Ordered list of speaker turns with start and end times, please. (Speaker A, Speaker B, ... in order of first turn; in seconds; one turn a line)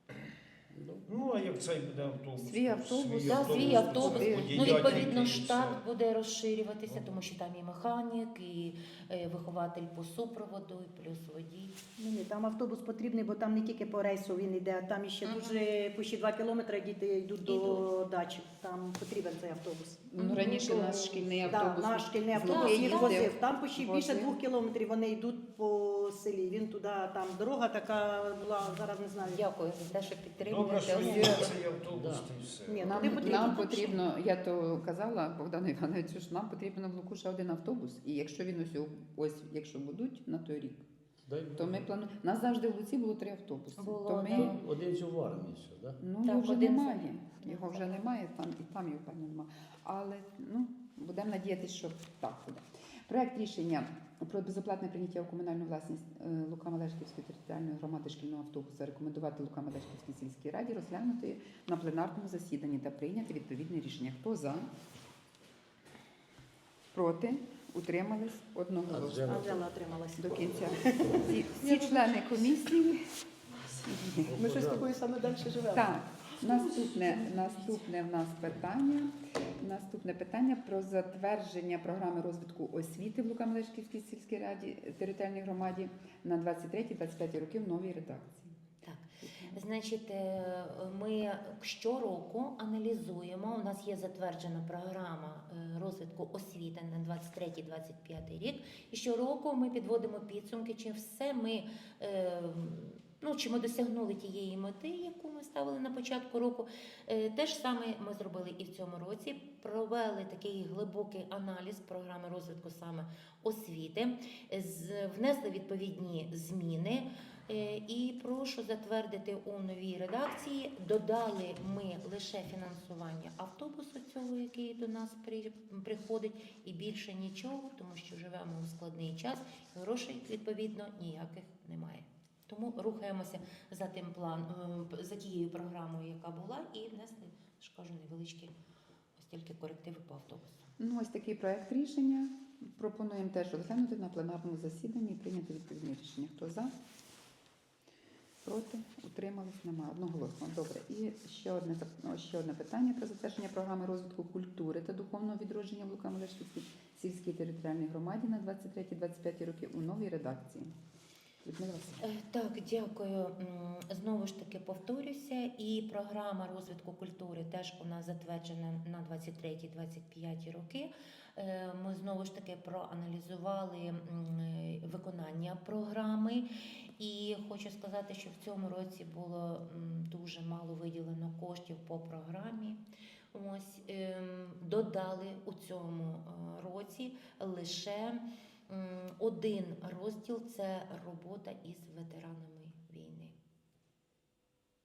Speaker A: 0.7-1.0
Speaker B: 1.1-5.8
Speaker C: 2.4-5.2
Speaker D: 3.3-11.8
Speaker B: 6.9-7.2
Speaker E: 12.0-29.4
Speaker D: 15.2-15.6
Speaker D: 17.4-17.9
Speaker C: 20.1-24.4
Speaker D: 20.2-20.7
Speaker D: 22.4-23.3
Speaker D: 28.6-31.6
Speaker B: 30.4-33.5
Speaker C: 30.9-31.3
Speaker A: 31.9-32.3
Speaker E: 32.7-34.0
Speaker C: 32.8-40.9
Speaker A: 41.3-41.9
Speaker C: 41.5-44.5
Speaker D: 43.8-44.6
Speaker A: 44.3-46.0
Speaker C: 46.0-64.7
Speaker D: 46.2-48.0
Speaker C: 66.9-69.6
Speaker A: 68.9-69.6
Speaker E: 69.2-72.4
Speaker C: 70.2-73.1
Speaker E: 73.6-77.8
Speaker C: 73.8-74.5
Speaker A: 74.2-74.9
Speaker C: 75.7-88.5
Speaker D: 88.8-138.5
Speaker C: 89.2-89.6
Speaker D: 139.2-140.7
Speaker C: 140.8-146.8
Speaker C: 148.4-160.7
Speaker C: 161.4-162.1
Speaker D: 162.0-176.5
Speaker D: 177.0-182.8
Speaker D: 183.3-193.3